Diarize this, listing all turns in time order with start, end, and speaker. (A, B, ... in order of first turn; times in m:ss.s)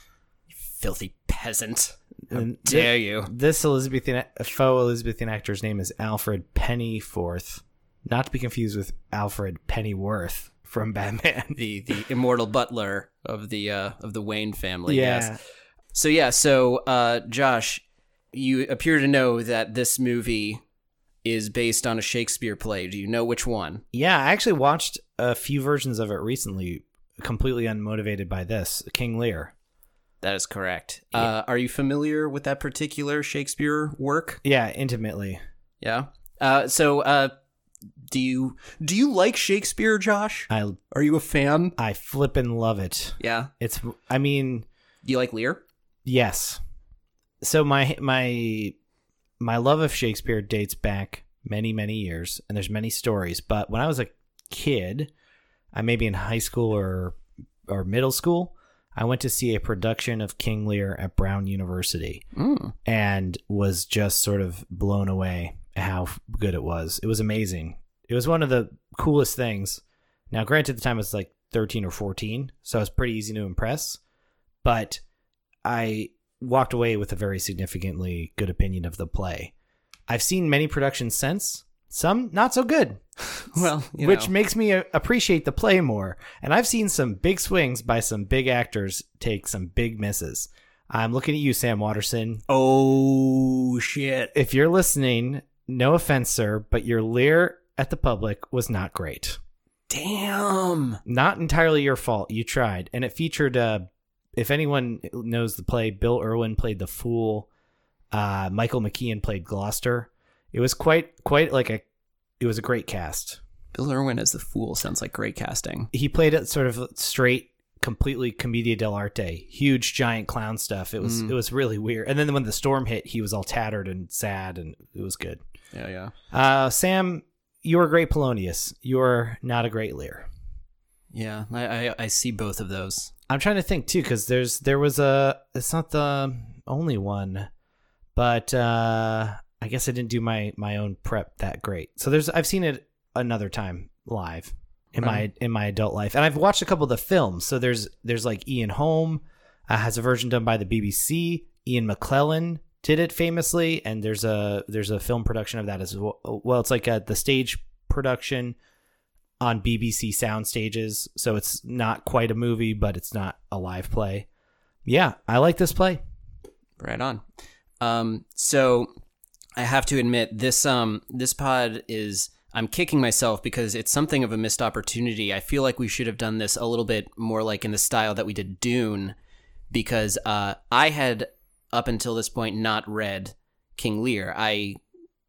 0:00.5-0:03.3 A
0:02.3-0:11.6 B
0:11.6-0:15.4 A
0:14.9-0:15.4 B
0:15.9-0:20.6 A
0:21.2-0:23.8 A
0:23.9-0:29.5 B
0:30.2-0:34.4 A
0:34.4-0:35.4 B
0:35.8-0:37.3 A
0:38.1-0:41.8 A
0:40.5-0:40.8 B
0:41.8-0:44.7 B
0:43.2-0:43.5 A
0:45.0-0:45.6 A
0:46.0-0:46.6 B
0:47.4-0:48.8 B
0:49.4-0:55.1 B
0:55.7-1:02.2 B
1:02.4-1:02.7 A
1:02.8-1:14.0 B
1:14.6-1:15.0 B
1:15.6-1:19.5 B
1:20.1-1:23.0 B
1:23.4-1:24.3 A
1:23.5-1:32.4 B
1:32.5-1:34.3 A
1:34.3-1:39.4 B
1:39.9-1:41.0 A
1:41.1-1:47.5 B
1:48.1-1:51.8 B
1:52.4-1:53.4 B
1:53.7-1:55.9 A
1:55.9-2:05.4 B
2:01.0-2:01.4 A
2:05.7-2:06.1 A
2:06.3-2:10.3 B
2:11.1-2:13.1 A
2:13.3-2:17.5 B
2:18.2-2:38.6 B
2:25.0-2:25.2 A
2:39.4-2:44.3 B
2:44.8-2:46.0 B
2:46.8-2:47.2 A
2:47.8-2:48.9 A
2:49.6-2:59.1 A
2:59.7-3:04.8 A